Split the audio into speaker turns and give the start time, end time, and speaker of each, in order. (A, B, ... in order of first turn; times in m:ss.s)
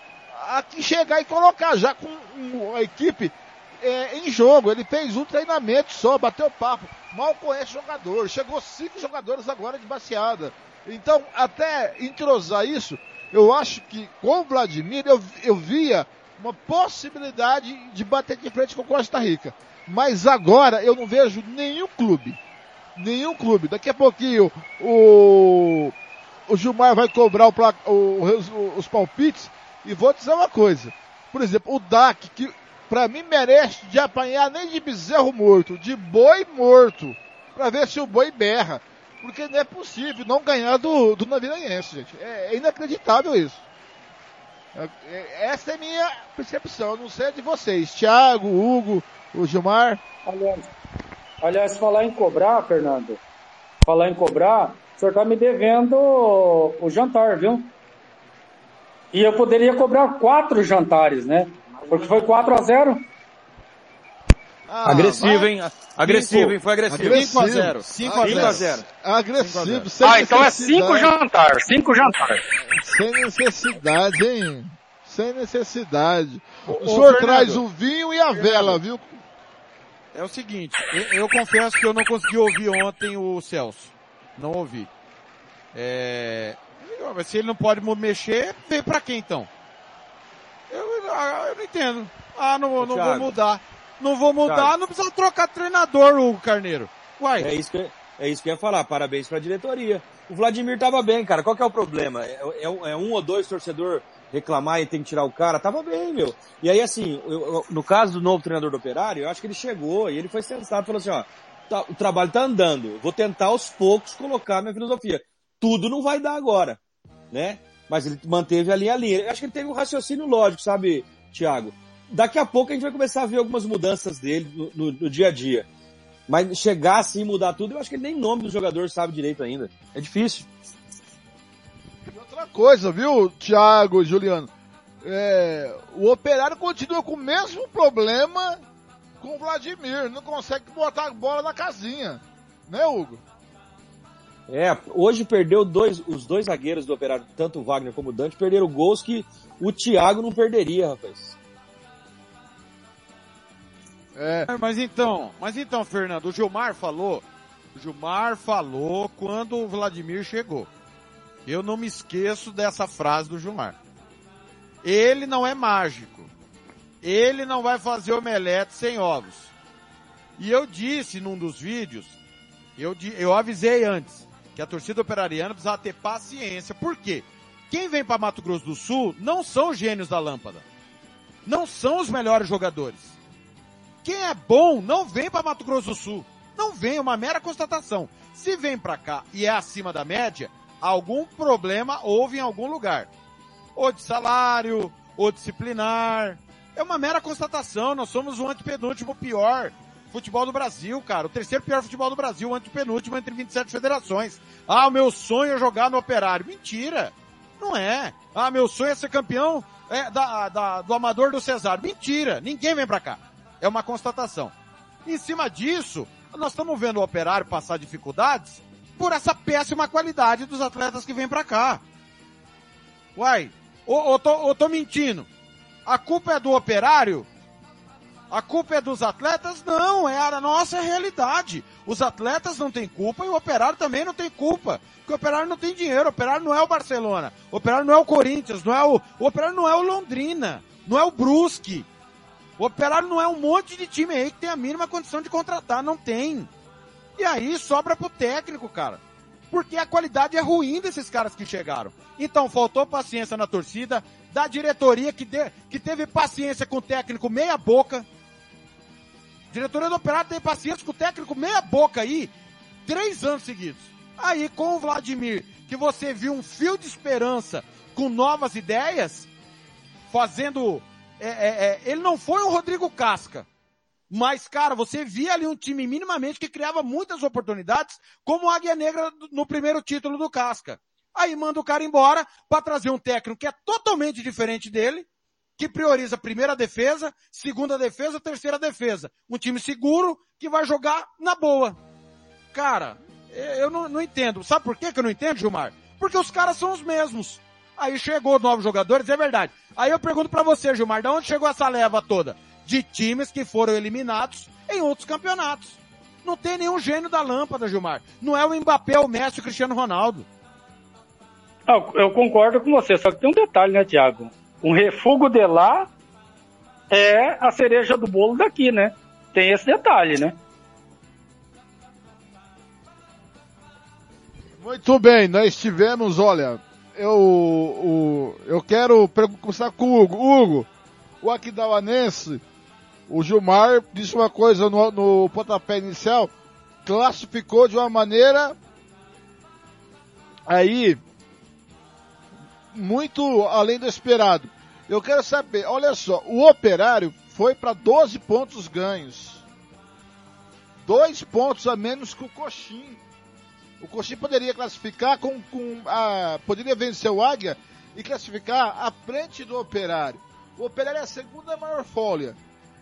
0:00.3-0:22.4 A
0:23.0-0:25.9 A
0:26.5-0:43.6 A
0:44.7-0:50.0 A
0:50.2-0:50.6 B
0:51.4-0:53.2 B
0:53.8-0:57.7 B
0:59.1-1:03.0 B
1:04.7-1:05.5 A
1:04.8-1:07.3 C
1:06.0-1:08.7 D
1:06.9-1:11.1 A
1:08.2-1:08.8 C
1:09.4-1:09.9 D
1:10.0-1:12.4 B
1:12.6-1:19.2 A
1:16.7-1:17.6 D
1:18.3-1:18.8 D
1:20.1-1:24.9 D
1:25.7-1:29.5 D
1:30.7-1:37.5 D
1:32.8-1:33.3 C
1:34.4-1:34.7 C
1:37.4-1:56.8 C
1:57.3-2:05.7 C
2:06.3-2:10.5 C
2:12.1-2:14.5 A
2:15.0-2:18.6 A
2:19.2-2:23.2 A
2:24.5-2:31.4 C
2:34.1-2:34.5 A
2:34.4-2:37.2 D
2:37.7-2:40.7 D
2:41.4-2:43.7 D
2:44.8-2:46.3 D
2:47.0-2:49.5 D
2:50.4-2:52.1 D
2:52.8-3:00.6 D
3:01.4-3:03.1 D
3:04.0-3:13.1 D
3:13.8-3:34.5 D
3:35.0-3:41.8 D
3:43.2-3:45.3 D
3:45.8-3:47.3 D
3:48.3-4:01.9 D
4:02.6-4:06.5 D
4:07.2-4:09.0 D
4:09.5-4:18.0 D
4:19.5-4:22.3 D
4:22.8-4:29.3 D
4:30.1-4:33.4 D
4:34.1-4:45.0 D
4:45.6-4:51.8 D
4:52.5-5:10.2 D
5:11.7-5:15.9 B
5:16.9-5:20.3 B
5:24.6-5:30.7 A
5:31.2-5:32.4 A
5:33.1-5:36.3 A
5:36.8-5:38.6 A
5:40.5-5:41.0 A
5:42.7-5:49.4 A
5:50.8-5:53.0 A
5:53.8-6:02.4 A